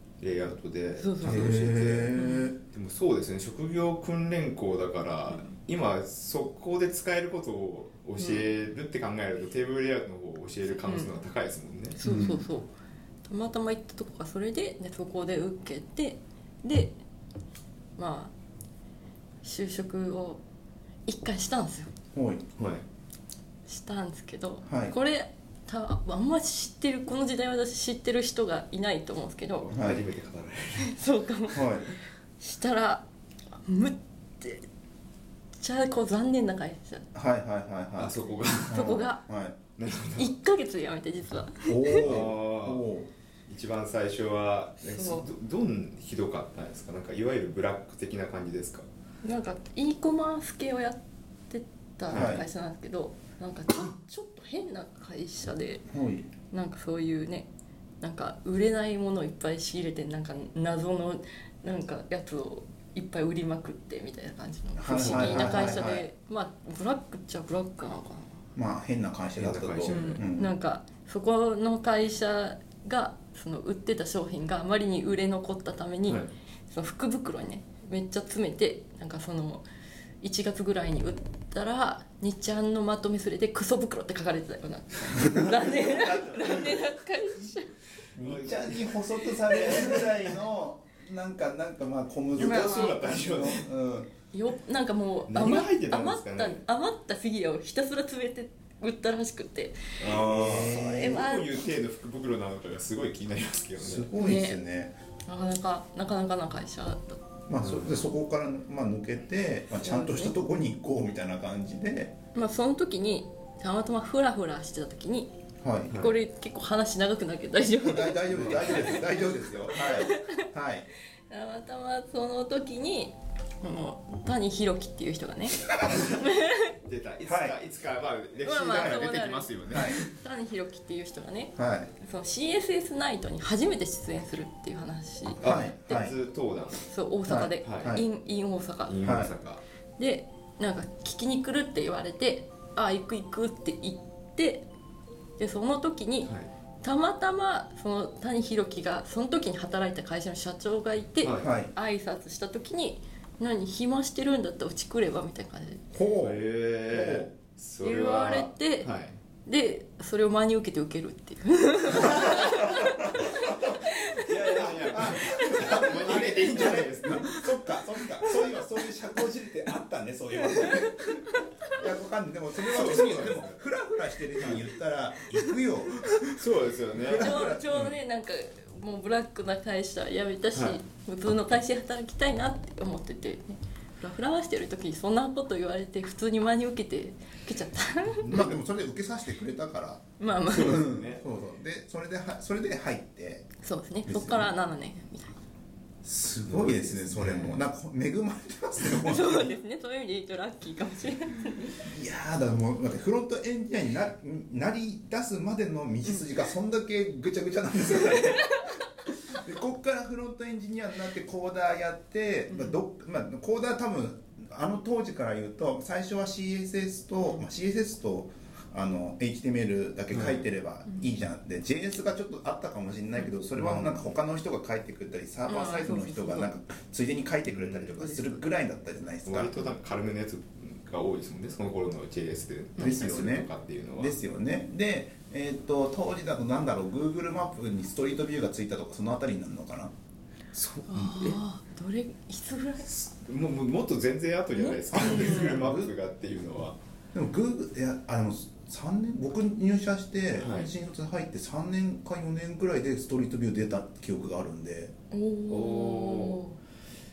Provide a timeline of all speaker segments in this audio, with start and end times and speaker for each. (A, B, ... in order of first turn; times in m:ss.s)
0:00.2-0:02.2 A
0:01.0-0:01.6 B
0:01.2-0:02.6 C
0:02.2-0:02.5 B
0:02.7-0:12.0 A
0:08.2-0:08.5 B
0:10.8-0:11.1 B
0:12.0-0:12.7 B
0:12.0-0:12.5 C
0:13.2-0:17.0 B
0:18.0-0:18.3 B
0:19.4-0:20.4 B
0:21.1-0:21.9 B
0:22.1-0:22.4 C
0:22.6-0:22.8 A
0:23.6-0:29.7 B
0:24.6-0:24.9 C
0:29.6-0:31.0 A
0:29.7-0:30.0 C
0:30.8-0:33.1 B
0:31.5-0:31.9 C
0:33.6-0:34.6 B
0:35.6-0:37.0 B
0:37.1-0:38.2 C
0:38.0-0:38.9 A
0:38.7-0:39.6 C
0:38.7-0:39.2 B
0:39.8-0:40.4 A
0:40.1-0:42.0 B
0:41.7-0:43.1 C
0:42.0-0:42.8 A
0:43.5-0:48.9 A
0:44.8-0:45.3 B
0:49.2-0:55.8 B
0:52.1-0:52.4 A
0:52.1-0:52.4 C
0:55.9-0:56.3 C
0:56.5-0:57.5 B
0:58.0-1:08.4 B
1:04.8-1:06.1 C
1:04.9-1:05.8 A
1:08.6-1:10.5 C
1:09.4-1:10.2 A
1:09.9-1:19.6 B
1:20.2-1:27.7 B
1:25.2-1:26.8 C
1:28.2-1:30.4 A
1:28.2-1:34.1 C
1:32.4-1:33.7 A
1:32.4-1:33.0 B
1:34.3-1:41.6 B
1:35.3-1:36.6 A
1:40.0-1:44.1 A
1:40.1-1:41.2 C
1:43.8-1:44.9 C
1:44.2-1:44.6 B
1:45.2-1:47.2 B
1:47.5-1:52.1 C
1:47.6-1:48.0 A
1:49.8-1:50.3 B
1:52.3-1:55.3 B
1:55.6-1:56.0 C
1:55.9-2:00.4 B
1:57.8-2:00.8 C
1:58.3-1:59.1 A
2:01.3-2:06.7 B
2:06.8-2:10.1 A
2:07.2-2:07.6 C
2:08.4-2:16.1 B
2:08.7-2:09.1 C
2:09.6-2:10.0 C
2:11.6-2:11.9 C
2:15.4-2:16.9 A
2:15.4-2:16.1 C
2:16.9-2:19.2 B
2:17.3-2:18.0 C
2:17.6-2:18.0 A
2:18.8-2:19.6 A
2:19.0-2:19.3 C
2:20.0-2:24.6 B
2:25.4-2:35.8 B
2:31.2-2:31.5 A
2:31.4-2:31.7 C
2:35.9-2:37.3 C
2:36.2-2:39.2 A
2:37.8-2:38.9 B
2:39.4-2:46.0 B
2:42.0-2:42.4 A
2:42.2-2:42.5 C
2:44.0-2:47.6 A
2:44.6-2:58.0 C
2:52.6-2:53.6 A
2:54.4-2:54.6 A
2:56.3-2:57.4 A
2:57.0-3:08.5 B
3:00.5-3:00.8 A
3:08.2-3:13.4 C
3:10.2-3:10.9 B
3:10.5-3:11.2 A
3:13.6-3:15.4 B
3:14.0-3:14.5 C
3:16.0-3:19.6 C
3:16.4-3:17.6 A
3:19.0-3:21.8 B
3:21.8-3:28.7 C
3:28.0-3:28.8 B
3:29.3-3:49.6 C
3:32.5-3:32.8 B
3:40.1-3:40.4 A
3:43.6-3:44.1 A
3:45.5-3:46.5 B
3:47.4-3:48.4 A
3:49.2-3:54.2 A
3:52.8-3:59.9 C
4:00.5-4:01.4 A
4:00.9-4:02.9 B
4:02.8-4:06.8 A
4:04.6-4:05.6 B
4:04.9-4:05.9 C
4:07.1-4:14.9 C
4:10.4-4:10.7 A
4:15.1-4:16.6 B
4:15.5-4:16.4 A